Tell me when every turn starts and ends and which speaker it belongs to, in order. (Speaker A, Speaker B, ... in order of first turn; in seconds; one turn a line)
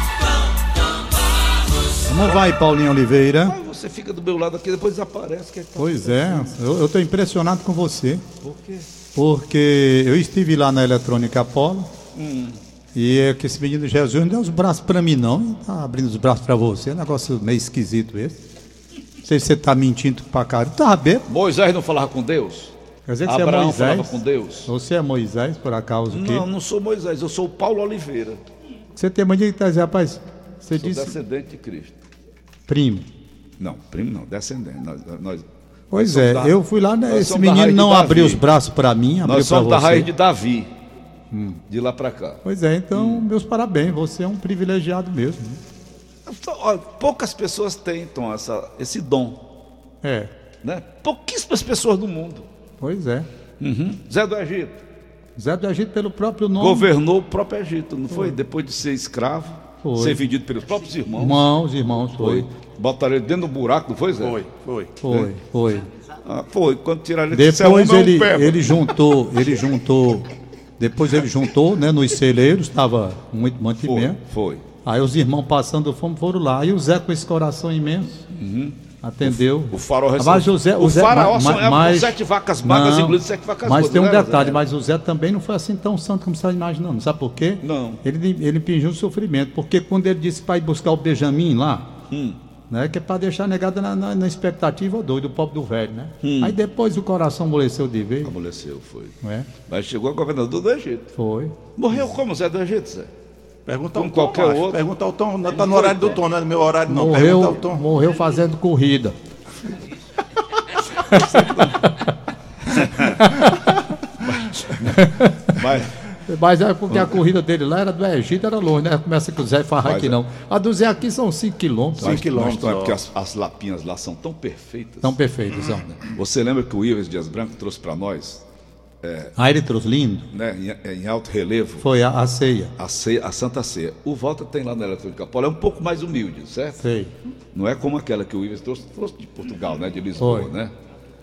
Speaker A: 2.1-3.5
Speaker B: 3.4-6.6
Speaker A: 5.8-8.2
Speaker B: 8.4-8.9
Speaker A: 9.1-11.9
Speaker B: 12.1-12.6
Speaker A: 12.9-18.4
Speaker A: 19.2-21.3
Speaker B: 21.3-24.7
Speaker A: 23.1-26.5
Speaker B: 26.1-28.4
Speaker A: 28.9-31.2
Speaker B: 30.7-31.9
Speaker A: 32.7-33.1
Speaker B: 33.6-36.5
Speaker A: 35.9-40.1
Speaker B: 37.1-38.5
Speaker B: 39.2-40.7
Speaker A: 41.3-41.6
Speaker B: 41.7-42.4
Speaker A: 42.4-45.6
Speaker B: 42.9-43.2
Speaker B: 46.2-49.4
Speaker A: 50.0-50.3
Speaker B: 50.6-52.5
Speaker A: 52.8-53.3
Speaker B: 53.6-54.7
Speaker A: 55.4-56.9
Speaker B: 56.6-61.5
Speaker A: 58.1-58.4
Speaker A: 59.8-60.3
Speaker A: 61.1-62.5
Speaker B: 62.2-64.4
Speaker C: 64.2-64.9
Speaker A: 65.0-65.9
Speaker B: 65.0-65.3
Speaker B: 66.2-68.9
Speaker A: 67.3-74.2
Speaker B: 73.8-74.6
Speaker A: 74.8-78.2
Speaker B: 78.3-84.6
Speaker A: 79.0-92.0
Speaker B: 87.6-88.0
Speaker B: 92.1-92.4
Speaker A: 92.7-98.3
Speaker B: 96.2-96.5
Speaker B: 98.2-101.1
Speaker A: 99.2-99.5
Speaker A: 101.1-101.6
Speaker B: 101.8-103.1
Speaker C: 103.7-107.8
Speaker B: 103.9-104.8
Speaker B: 105.5-106.2
Speaker A: 106.9-109.2
Speaker A: 111.0-112.0
Speaker B: 111.1-111.8
Speaker B: 112.8-113.2
Speaker A: 112.9-113.8
Speaker A: 114.6-115.6
Speaker B: 115.5-115.9
Speaker A: 116.3-122.2
Speaker B: 119.8-120.2
Speaker B: 122.0-125.2
Speaker C: 122.0-123.0
Speaker A: 125.0-125.9
Speaker B: 125.8-128.4
Speaker B: 129.0-129.3
Speaker A: 129.3-130.3
Speaker B: 130.3-131.9
Speaker A: 131.8-132.7
Speaker B: 132.8-136.8
Speaker A: 136.8-137.1
Speaker B: 137.5-140.7
Speaker A: 140.2-140.5